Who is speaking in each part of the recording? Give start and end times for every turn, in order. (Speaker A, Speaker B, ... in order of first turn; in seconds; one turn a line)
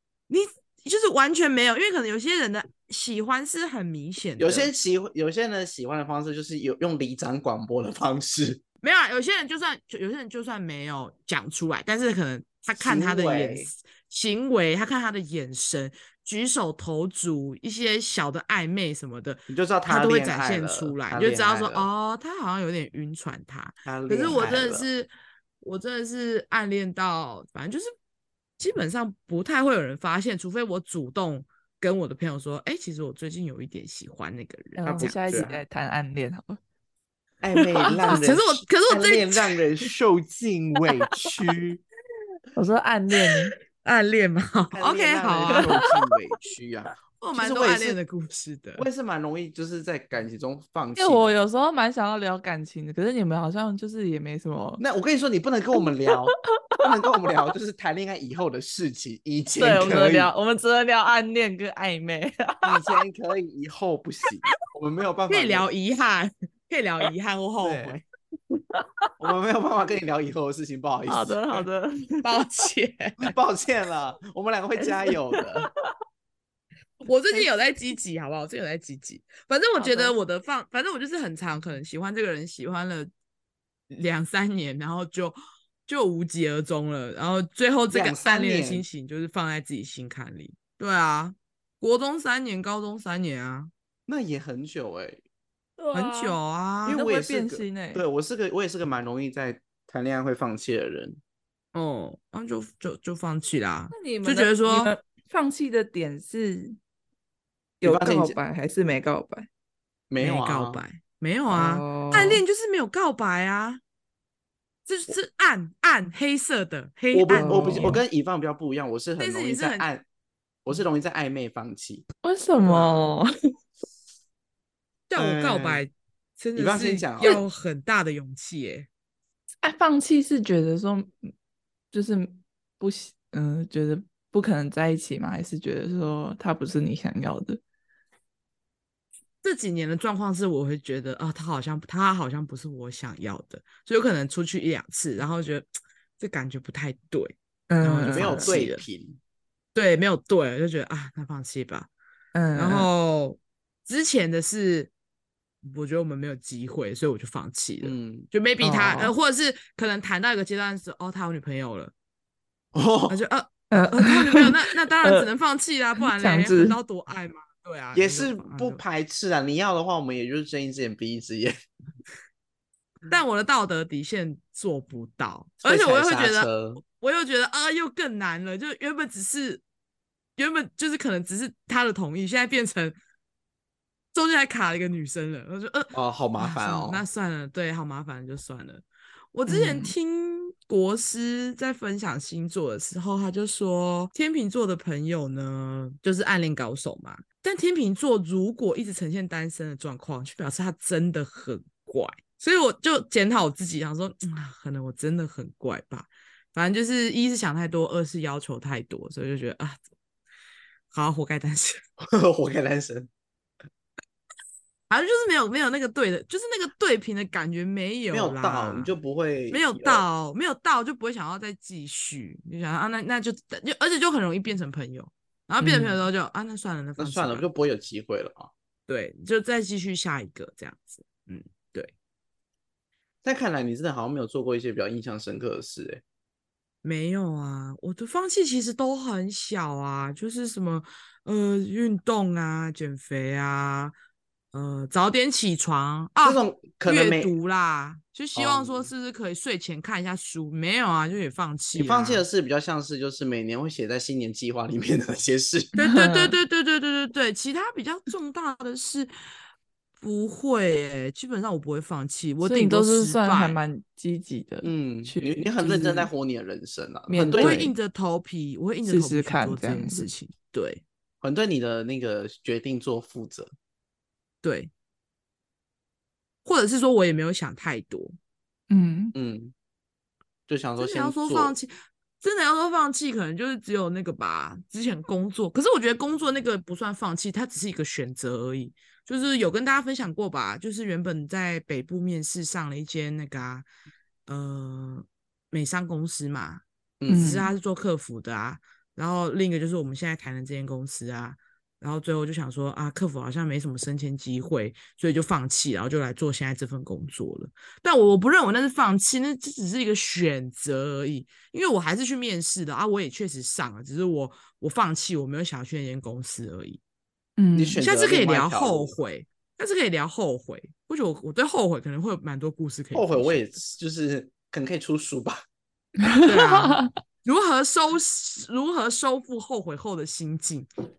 Speaker A: 0.3-4.7
Speaker B: 4.4-8.6
Speaker A: 8.8-25.1
Speaker B: 12.8-13.7
Speaker B: 19.5-21.9
Speaker B: 23.9-24.9
Speaker A: 25.6-27.9
Speaker A: 28.6-35.5
Speaker C: 34.8-36.6
Speaker B: 34.9-35.6
Speaker B: 37.4-41.8
Speaker A: 38.1-39.6
Speaker C: 42.6-43.5
Speaker A: 43.2-45.9
Speaker B: 44.7-48.0
Speaker A: 47.2-48.9
Speaker B: 48.8-51.3
Speaker C: 51.0-54.8
Speaker B: 54.8-60.3
Speaker C: 59.6-62.8
Speaker B: 62.6-65.7
Speaker A: 65.3-68.0
Speaker B: 67.6-68.0
Speaker C: 68.7-69.1
Speaker B: 69.2-71.7
Speaker C: 71.1-72.7
Speaker A: 72.2-73.3
Speaker B: 73.2-75.7
Speaker C: 74.8-75.5
Speaker A: 77.0-83.1
Speaker C: 79.8-80.2
Speaker A: 83.9-93.7
Speaker B: 87.9-88.9
Speaker B: 94.1-95.2
Speaker C: 95.8-98.0
Speaker A: 95.9-97.0
Speaker B: 96.8-101.2
Speaker A: 101.7-104.9
Speaker C: 103.9-106.8
Speaker C: 107.8-109.5
Speaker B: 107.8-108.4
Speaker B: 110.1-110.8
Speaker A: 110.2-113.8
Speaker C: 111.5-112.4
Speaker A: 114.9-118.0
Speaker B: 117.1-120.0
Speaker C: 117.3-118.0
Speaker A: 119.2-119.9
Speaker B: 120.7-122.1
Speaker C: 122.2-123.3
Speaker A: 122.7-122.9
Speaker A: 125.1-128.9
Speaker B: 125.2-125.8
Speaker B: 126.6-127.4
Speaker C: 129.6-131.3
Speaker C: 131.9-137.6
Speaker A: 139.4-145.7
Speaker A: 146.2-148.8
Speaker C: 147.7-148.6
Speaker B: 148.1-149.2
Speaker A: 149.8-151.9
Speaker C: 152.3-152.9
Speaker A: 152.6-154.9
Speaker A: 155.6-161.9
Speaker B: 157.8-158.3
Speaker C: 158.6-159.1
Speaker B: 162.7-163.2
Speaker A: 163.1-168.8
Speaker C: 163.7-165.3
Speaker C: 166.0-166.8
Speaker B: 167.9-171.5
Speaker A: 173.1-179.6
Speaker B: 175.6-176.8
Speaker A: 180.4-183.0
Speaker A: 184.1-209.8
Speaker B: 185.9-187.0
Speaker C: 189.5-189.9
Speaker A: 210.9-211.8
Speaker B: 212.0-213.1
Speaker A: 214.9-218.9
Speaker B: 218.1-220.1
Speaker A: 219.5-227.5
Speaker C: 225.6-226.0
Speaker B: 227.0-228.5
Speaker A: 228.9-231.9
Speaker B: 233.2-236.0
Speaker A: 236.8-243.9
Speaker A: 244.5-252.2
Speaker B: 246.2-247.3
Speaker B: 248.3-248.9
Speaker B: 251.8-255.7
Speaker A: 255.8-259.1
Speaker C: 255.8-256.4
Speaker A: 260.0-263.6
Speaker C: 262.4-266.1
Speaker B: 264.6-267.7
Speaker C: 267.1-267.7
Speaker A: 267.4-270.8
Speaker C: 268.9-270.1
Speaker B: 271.2-273.5
Speaker A: 274.4-274.7
Speaker A: 276.4-278.2
Speaker C: 278.7-279.1
Speaker B: 279.1-279.5
Speaker B: 280.5-281.6
Speaker A: 280.8-293.7
Speaker A: 294.3-316.8
Speaker B: 297.0-297.4
Speaker C: 297.1-297.5
Speaker C: 317.4-317.8
Speaker B: 317.6-319.0
Speaker A: 317.8-323.4
Speaker B: 322.9-325.4
Speaker C: 326.0-326.9
Speaker A: 326.3-330.7